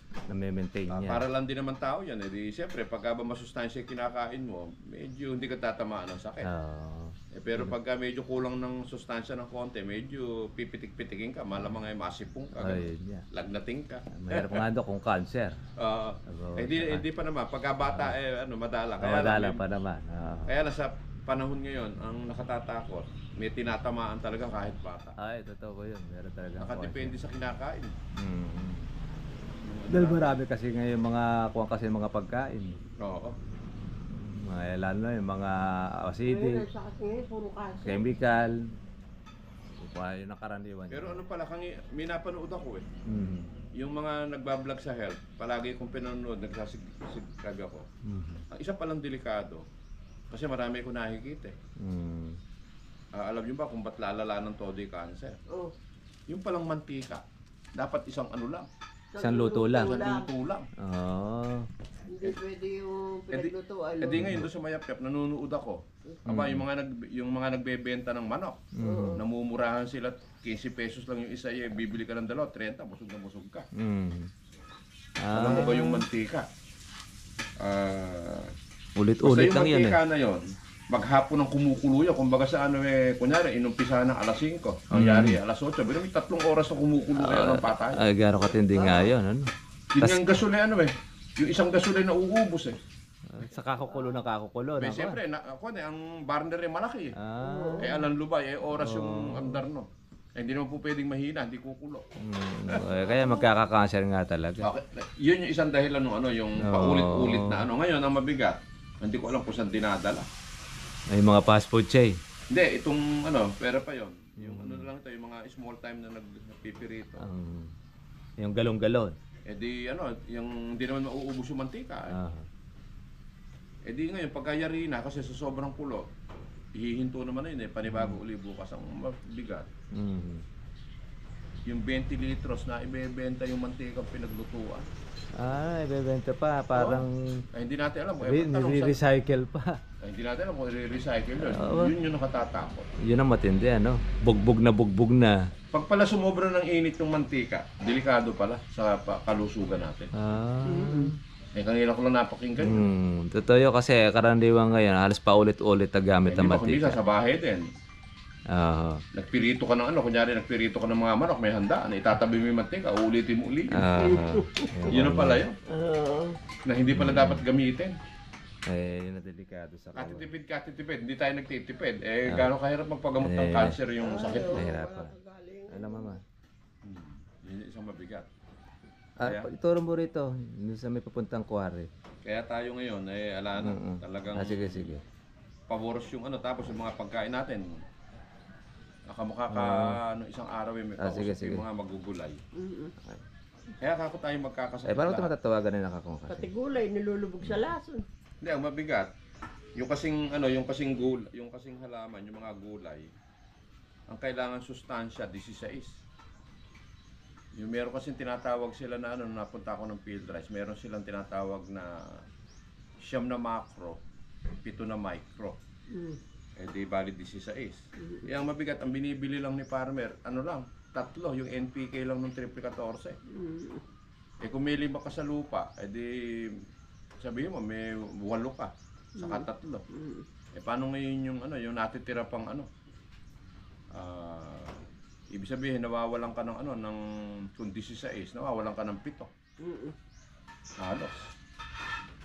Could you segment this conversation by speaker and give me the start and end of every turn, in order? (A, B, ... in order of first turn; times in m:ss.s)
0:00.3-0:01.2 A
0:00.9-0:06.5 B
0:06.4-0:07.7 A
0:07.3-0:14.6 B
0:12.6-0:13.2 A
0:14.1-0:15.6 A
0:15.8-0:19.6 B
0:16.3-0:17.0 A
0:17.9-0:18.1 A
0:19.0-0:20.5 A
0:20.5-0:25.2 B
0:25.2-0:27.1 A
0:26.6-0:27.9 B
0:28.2-0:28.9 A
0:29.6-0:30.4 B
0:29.9-0:32.8 A
0:33.0-0:33.4 B
0:34.2-0:36.6 A
0:36.3-0:38.0 C
0:37.8-0:38.7 A
0:39.8-0:41.2 A
0:40.9-0:42.8 B
0:43.0-0:43.5 A
0:43.8-0:47.9 B
0:48.0-0:48.4 A
0:48.5-0:49.6 B
0:50.3-0:51.5 B
0:51.8-0:52.4 A
0:53.1-0:55.4 B
0:56.3-0:57.2 B
0:57.7-0:58.7 B
0:59.1-1:00.3 C
0:59.2-1:00.0 A
0:59.7-1:00.7 B
1:00.8-1:01.7 A
1:02.1-1:04.3 C
1:03.3-1:13.6 B
1:04.1-1:04.5 A
1:06.3-1:06.6 A
1:08.7-1:09.2 A
1:08.8-1:09.2 C
1:13.7-1:14.3 A
1:15.2-1:16.0 A
1:15.3-1:16.5 B
1:17.6-1:18.5 B
1:19.0-1:20.0 A
1:19.2-1:28.0 B
1:24.9-1:25.4 A
1:27.2-1:30.2 A
1:29.9-1:32.8 B
1:33.3-1:35.2 A
1:34.8-1:37.1 B
1:37.1-1:37.9 A
1:37.4-1:38.1 C
1:37.8-1:42.0 B
1:38.8-1:39.6 A
1:42.2-1:44.7 A
1:42.7-1:43.4 B
1:44.6-1:50.3 B
1:46.6-1:47.6 A
1:51.1-1:52.2 A
1:52.5-1:57.2 B
1:54.4-1:54.9 A
1:57.2-1:57.7 A
1:58.4-1:59.2 A
1:59.5-2:02.1 B
2:02.1-2:02.4 A
2:03.8-2:06.1 B
2:06.7-2:09.7 B
2:07.9-2:08.2 A
2:09.9-2:10.4 A
2:11.7-2:14.9 B
2:15.4-2:17.4 A
2:16.7-2:19.0 B
2:18.2-2:19.8 A
2:20.0-2:22.9 B
2:21.4-2:21.9 A
2:23.0-2:25.5 A
2:25.7-2:30.1 B
2:30.1-2:31.2 A
2:30.6-2:31.1 C
2:31.5-2:32.8 B
2:32.6-2:37.0 A
2:36.3-2:37.6 B
2:38.5-2:39.0 A
2:39.1-2:43.9 B
2:43.7-2:45.4 A
2:44.0-2:44.9 C
2:44.9-2:45.6 B
2:45.7-2:46.4 C
2:46.6-2:48.0 B
2:46.9-2:47.4 A
2:48.7-2:50.3 A
2:49.9-2:54.7 B
2:53.2-2:53.8 A
2:54.0-2:56.2 C
2:54.5-2:55.1 A
2:55.7-2:56.2 A
2:56.8-2:58.3 B
2:59.2-3:01.9 A
2:59.2-2:59.5 B
3:02.2-3:04.9 B
3:03.6-3:05.0 A
3:05.7-3:07.8 B
3:09.1-3:12.4 B
3:09.5-3:10.0 A
3:11.0-3:11.6 A
3:12.5-3:12.9 C
3:13.8-3:15.3 B
3:14.8-3:16.5 A
3:16.3-3:18.0 C
3:18.4-3:19.1 B
3:19.8-3:23.1 B
3:24.1-3:26.0 B
3:27.5-3:32.2 B
3:33.0-3:34.0 B
3:34.6-3:35.6 B
3:35.9-3:36.2 C
3:36.6-3:43.2 B
3:43.3-3:43.8 C
3:44.4-3:46.6 B
3:47.2-3:49.8 B
3:49.2-3:50.2 C
3:50.5-3:52.7 B
3:53.9-3:54.7 B
3:55.3-3:59.3 B
3:59.6-3:59.9 C
4:00.8-4:01.2 B